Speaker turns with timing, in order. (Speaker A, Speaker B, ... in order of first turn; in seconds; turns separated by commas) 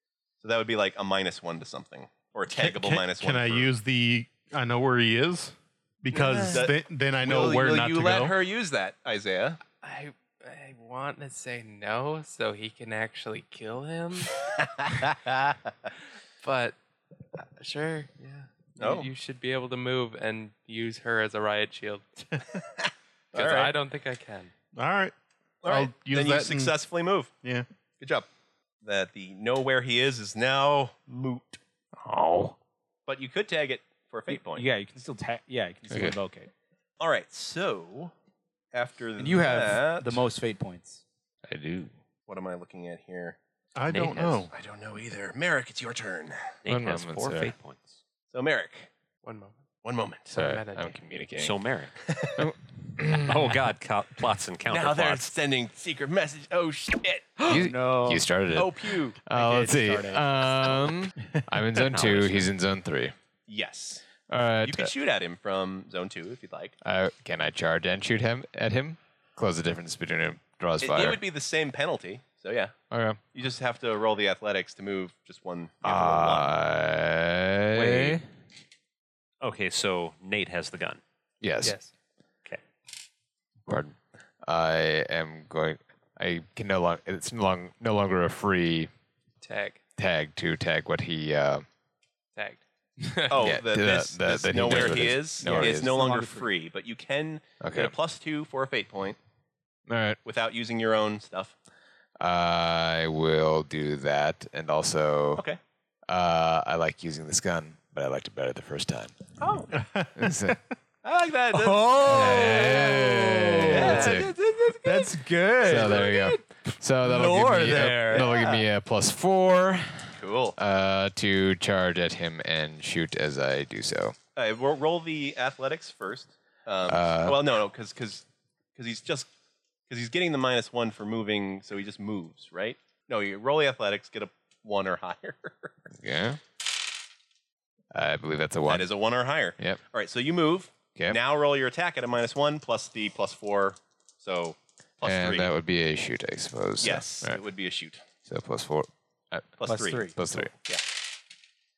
Speaker A: 0.4-3.7, Speaker B: 2.5-8.3, Speaker A: 6.1-9.6, Speaker C: 9.8-14.3, Speaker A: 14.6-15.9, Speaker C: 16.4-16.8, Speaker C: 17.4-22.0, Speaker A: 18.8-19.1, Speaker A: 22.8-23.7, Speaker C: 23.3-24.5, Speaker B: 24.7-25.1, Speaker B: 25.6-26.8, Speaker A: 25.6-27.3, Speaker A: 28.0-28.3, Speaker A: 28.8-31.6, Speaker D: 32.0-32.5, Speaker A: 33.1-34.7, Speaker E: 34.3-36.5, Speaker D: 35.9-36.1, Speaker A: 37.0-38.1, Speaker A: 38.7-40.2, Speaker E: 39.2-41.0, Speaker D: 41.5-41.9, Speaker A: 42.3-43.4, Speaker B: 43.7-44.5, Speaker F: 43.9-44.5, Speaker A: 44.5-46.6, Speaker F: 46.6-48.0, Speaker D: 46.6-47.5, Speaker A: 48.3-48.9, Speaker C: 49.2-49.6, Speaker A: 49.8-50.4, Speaker C: 50.3-51.0, Speaker D: 50.3-51.6, Speaker F: 51.4-51.9, Speaker A: 52.0-52.5, Speaker D: 52.4-53.6, Speaker F: 53.2-55.3, Speaker A: 54.7-57.6, Speaker E: 57.4-58.3, Speaker D: 57.5-63.1, Speaker A: 58.5-59.2, Speaker E: 59.3-60.5, Speaker F: 61.8-62.5, Speaker A: 63.5-64.0, Speaker D: 64.3-64.9, Speaker A: 64.6-66.7, Speaker D: 66.8-71.2, Speaker A: 70.8-72.7, Speaker D: 72.9-73.2, Speaker A: 73.3-76.5, Speaker D: 75.8-78.2, Speaker F: 77.8-78.1, Speaker F: 79.4-81.0, Speaker D: 81.4-81.8, Speaker C: 81.6-81.9, Speaker D: 83.7-88.9, Speaker C: 89.4-89.8, Speaker D: 90.0-91.6, Speaker C: 92.3-93.6, Speaker A: 93.3-99.2, Speaker D: 93.4-95.9, Speaker E: 94.7-96.5, Speaker D: 97.6-97.9, Speaker D: 99.9-100.2, Speaker A: 100.2-101.5, Speaker D: 102.2-105.4, Speaker D: 106.1-109.1, Speaker A: 109.4-109.8, Speaker B: 109.8-110.2, Speaker D: 110.2-110.6, Speaker A: 111.0-112.9, Speaker E: 111.5-118.3, Speaker D: 112.0-114.3, Speaker A: 113.7-115.2, Speaker D: 115.6-124.2, Speaker A: 115.7-116.2, Speaker A: 118.1-118.6, Speaker A: 120.2-120.6, Speaker A: 124.3-129.3, Speaker D: 126.8-127.4, Speaker A: 129.9-135.8, Speaker D: 135.9-136.4, Speaker D: 137.9-138.9, Speaker A: 138.7-145.5, Speaker D: 145.0-147.4, Speaker A: 146.8-148.0, Speaker D: 148.2-150.5, Speaker A: 149.6-150.8, Speaker E: 149.7-150.4